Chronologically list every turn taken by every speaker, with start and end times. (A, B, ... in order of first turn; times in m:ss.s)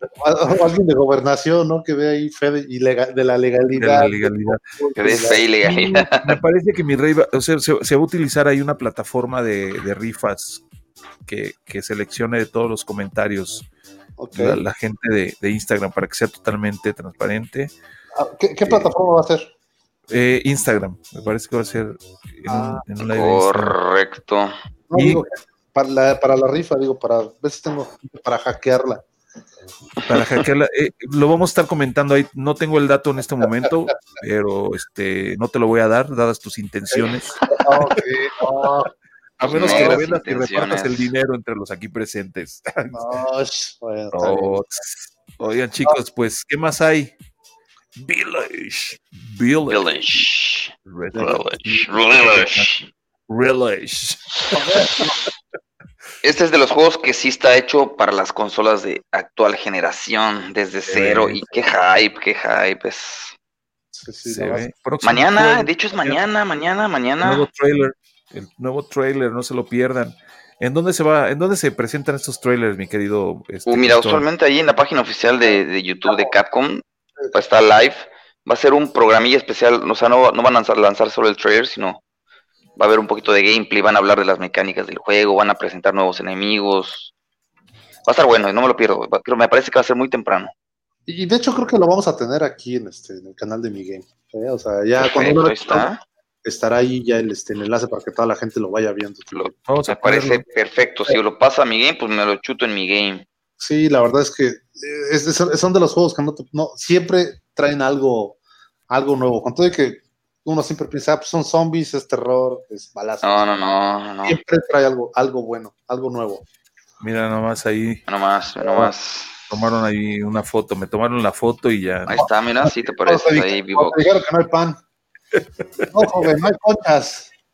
0:00.2-0:05.5 A
0:03.7-0:10.6 B
0:05.0-0:06.4 C
0:11.2-0:13.6 B
0:14.2-0:14.6 A
0:14.3-0:17.7 B
0:18.1-0:19.5 A
0:18.6-0:18.9 B
0:20.1-0:23.8 B
0:22.4-0:22.8 A
0:23.0-0:24.6 C
0:24.9-0:29.0 A
0:24.9-0:25.2 B
0:30.1-0:37.4 B
0:36.9-0:38.9 A
0:39.4-0:41.1 C
0:39.4-0:43.2 B
0:39.5-0:40.0 A
0:42.9-0:44.6 A
0:44.1-0:47.1 B
0:48.0-0:50.3 B
0:49.7-0:50.7 C
0:50.8-0:52.7 B
0:51.1-0:51.4 A
0:51.2-0:52.9 C
0:53.3-0:55.0 B
0:54.5-0:55.2 A
0:56.2-1:03.3 C
1:00.9-1:01.4 B
1:03.9-1:04.7 A
1:04.2-1:06.2 B
1:05.0-1:07.4 C
1:07.2-1:14.2 B
1:13.7-1:22.0 C
1:22.8-1:27.1 C
1:28.0-1:30.5 C
1:31.1-1:35.9 A
1:35.0-1:36.0 C
1:36.4-1:39.6 A
1:39.3-1:43.2 C
1:39.7-1:40.4 B
1:43.6-1:48.4 A
1:48.9-1:53.7 A
1:53.2-1:54.4 C
1:54.2-1:56.4 A
1:57.0-1:58.0 B
1:58.1-1:59.5 C
1:58.6-1:58.9 A
1:59.5-2:02.2 B
2:02.1-2:04.1 C
2:02.2-2:04.8 A
2:05.3-2:06.3 B
2:05.9-2:07.3 A